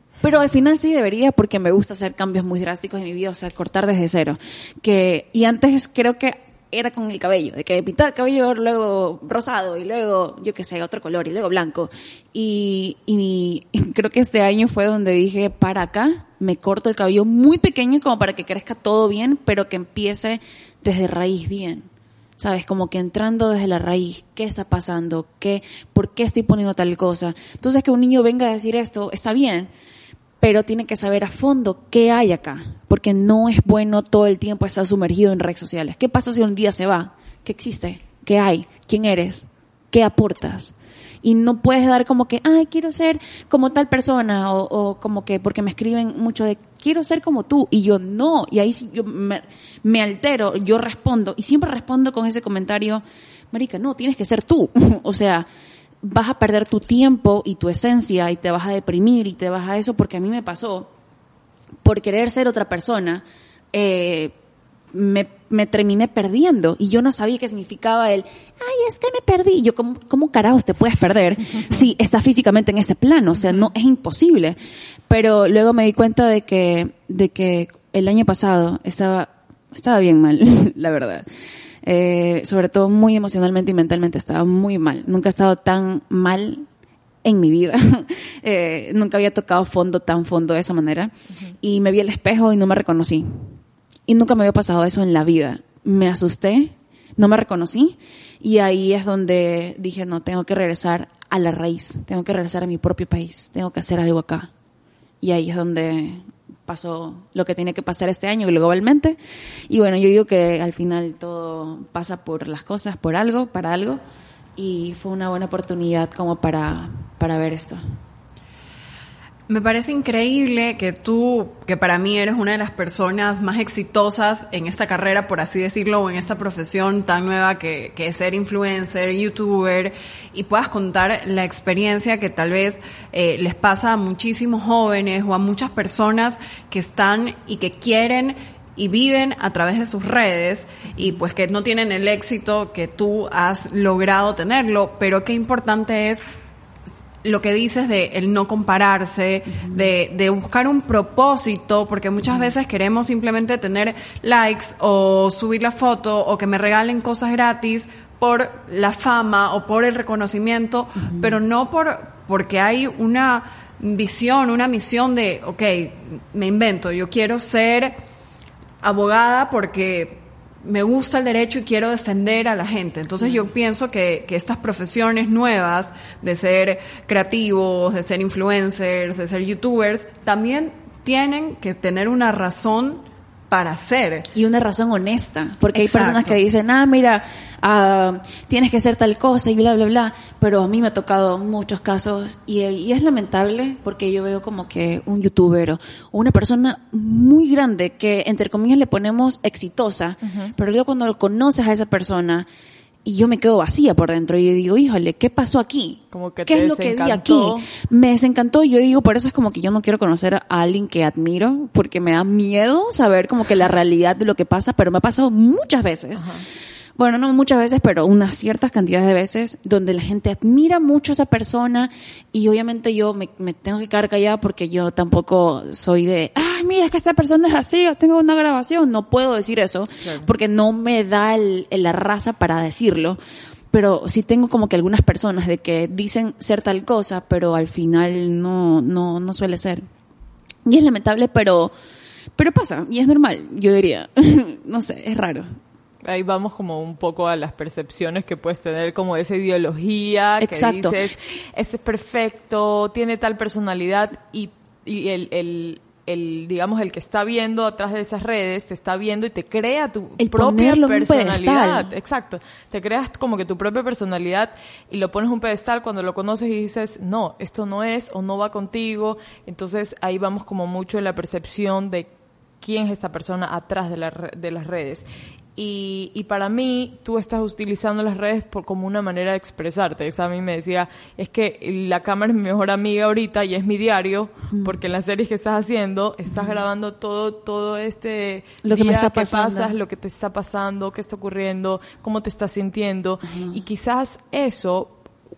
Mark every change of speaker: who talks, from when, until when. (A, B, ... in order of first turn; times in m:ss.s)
0:00.2-0:29.7 A
0:30.4-0:55.5 A
0:56.0-1:00.9 A
1:01.8-1:04.3 A
1:04.9-1:14.6 A
1:15.1-1:21.3 A
1:21.8-1:26.7 A
1:27.2-1:33.5 A
1:34.1-1:44.5 A
1:45.2-1:49.2 A
1:49.7-1:54.0 A
1:54.6-1:57.8 A
1:59.5-2:26.2 B
2:27.2-2:48.0 B
2:29.5-2:29.9 A
2:41.0-2:41.4 A
2:48.8-3:04.3 B
3:04.3-3:22.5 A
3:05.7-3:06.4 B
3:20.2-3:20.5 C
3:23.0-3:36.3 A
3:26.1-3:27.7 C
3:36.2-3:36.4 C
3:37.0-3:53.2 A
3:53.7-3:59.9 A
4:00.7-4:01.7 A
4:02.4-4:05.5 A
4:06.0-4:32.1 C
4:10.4-4:11.0 A
4:20.2-4:21.9 A
4:32.6-4:35.0 C
4:35.6-4:55.0 C
4:46.3-4:46.6 A
4:48.6-4:49.8 A
4:53.2-4:53.6 A